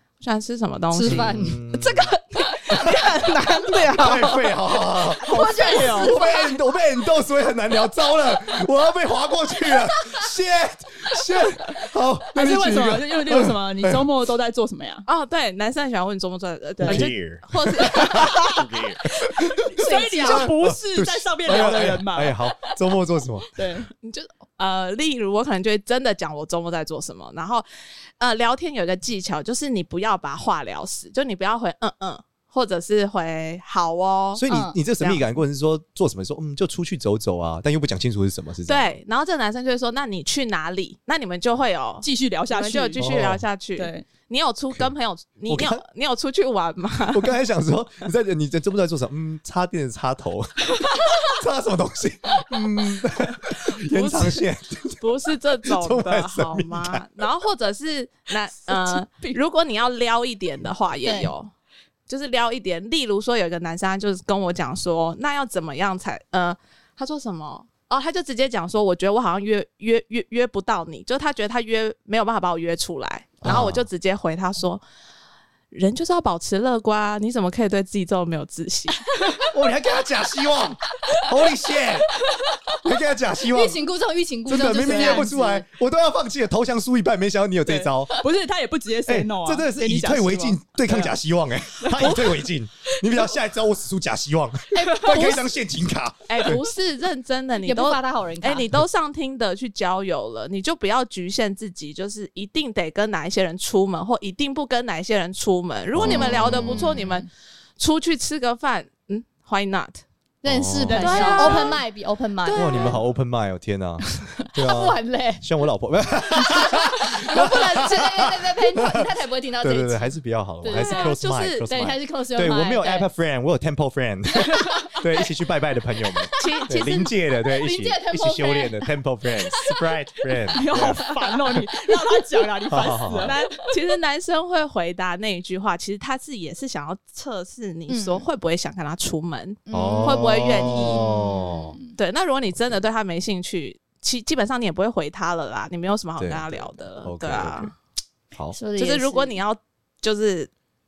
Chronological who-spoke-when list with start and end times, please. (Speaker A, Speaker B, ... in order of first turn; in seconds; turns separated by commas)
Speaker A: 0.2-4.6, Speaker B: 0.9-1.6, Speaker C: 1.0-2.1, Speaker C: 2.7-3.1, Speaker C: 3.8-14.0, Speaker D: 5.2-6.2, Speaker B: 5.3-6.2, Speaker D: 12.3-15.1, Speaker A: 15.1-18.7, Speaker D: 16.8-17.1, Speaker C: 16.8-19.5, Speaker D: 17.9-22.4, Speaker A: 19.8-20.5, Speaker C: 20.2-23.5, Speaker D: 23.6-23.9, Speaker A: 24.0-27.6, Speaker A: 28.2-34.4, Speaker C: 34.3-39.0, Speaker B: 34.5-34.8, Speaker A: 38.7-47.4, Speaker D: 42.0-43.1, Speaker C: 43.0-43.4, Speaker D: 43.8-44.1, Speaker C: 45.5-45.8, Speaker C: 47.1-57.1, Speaker A: 53.7-54.4, Speaker A: 55.0-61.5, Speaker D: 58.6-59.4, Speaker B: 61.0-61.3, Speaker A: 62.1-74.8, Speaker C: 73.4-73.9, Speaker A: 75.7-79.0, Speaker C: 79.5-82.1, Speaker C: 82.7-83.8, Speaker B: 83.5-85.7, Speaker C: 84.5-88.2, Speaker D: 84.9-85.3, Speaker D: 87.7-91.2, Speaker C: 89.0-96.6, Speaker D: 91.8-92.4, Speaker B: 95.0-95.4, Speaker A: 95.1-95.4, Speaker A: 96.3-110.0, Speaker B: 97.5-98.7, Speaker C: 105.9-106.9, Speaker B: 106.0-107.3, Speaker B: 110.4-113.0, Speaker C: 110.4-111.3, Speaker D: 110.8-111.8, Speaker A: 110.9-111.8, Speaker A: 112.4-113.0, Speaker C: 112.5-131.0, Speaker B: 114.5-115.4, Speaker B: 116.3-123.1, Speaker A: 120.6-122.0, Speaker B: 124.3-125.3, Speaker B: 126.0-126.8, Speaker A: 126.4-127.1, Speaker B: 127.4-128.9, Speaker B: 129.4-129.8, Speaker D: 130.5-133.4, Speaker C: 132.7-133.3, Speaker A: 133.2-141.0, Speaker B: 137.9-138.3, Speaker B: 139.7-141.9, Speaker C: 139.7-141.8, Speaker A: 141.9-147.7, Speaker C: 146.2-147.7, Speaker B: 148.5-149.4, Speaker A: 148.8-150.5